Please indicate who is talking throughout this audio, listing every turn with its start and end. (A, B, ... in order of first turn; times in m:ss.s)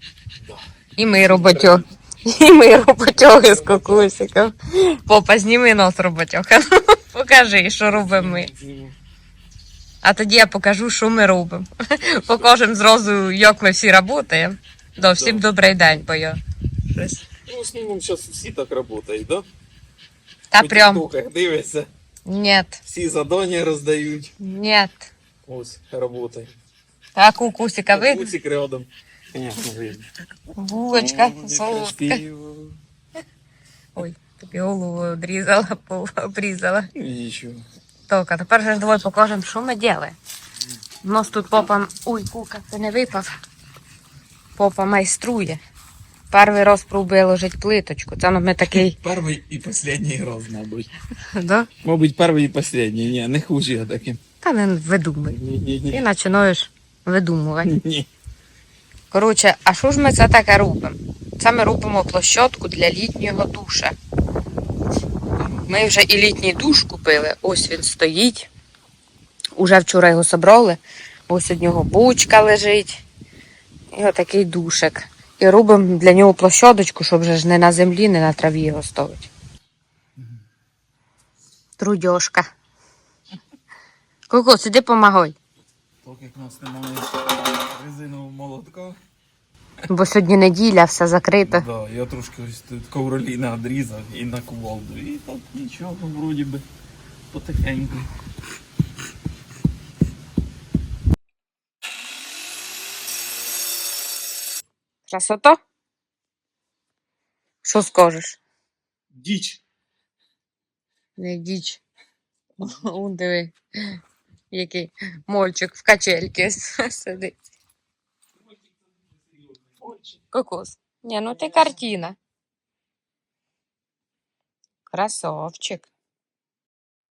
0:00.4-0:01.9 A
0:01.0-0:08.5 B
0:03.3-0:04.1 A
0:07.8-0:09.0 A
0:10.0-0:16.4 B
0:12.0-0:12.5 A
0:15.0-0:15.4 A
0:17.0-0:17.2 B
0:17.4-0:19.5 A
0:20.5-0:21.0 B
0:20.6-0:21.9 A
0:22.3-0:22.8 B
0:22.8-0:24.3 A
0:24.4-0:25.1 B
0:25.5-0:26.5 A
0:27.2-0:28.3 B
0:27.9-0:30.1 A
0:30.5-0:32.2 B
0:30.9-0:32.8 A
0:34.0-0:36.9 B
0:37.0-0:37.7 A
0:38.1-0:40.2 B
0:41.0-0:43.3 B
0:44.6-0:45.6 B
0:46.3-0:49.0 B
0:48.7-0:50.9 A
0:51.2-0:51.7 B
0:51.8-0:54.2 A
0:54.4-0:57.7 B
0:55.3-0:56.0 A
0:57.6-0:58.1 A
0:59.1-1:04.0 B
1:05.4-1:05.7 A
1:05.6-1:08.5 B
1:09.6-1:13.0 B
1:13.9-1:19.3 B
1:21.8-1:22.5 B
1:24.3-1:25.4 B
1:26.0-1:29.0 A
1:29.9-1:31.7 B
1:31.4-1:36.6 A
1:37.3-1:38.1 A
1:45.1-1:45.6 B
1:47.6-1:48.4 B
1:49.1-1:49.6 A
1:51.2-1:51.8 B
1:52.6-1:54.0 B
1:54.5-1:57.4 B
2:00.3-2:02.2 B
2:04.9-2:05.9 B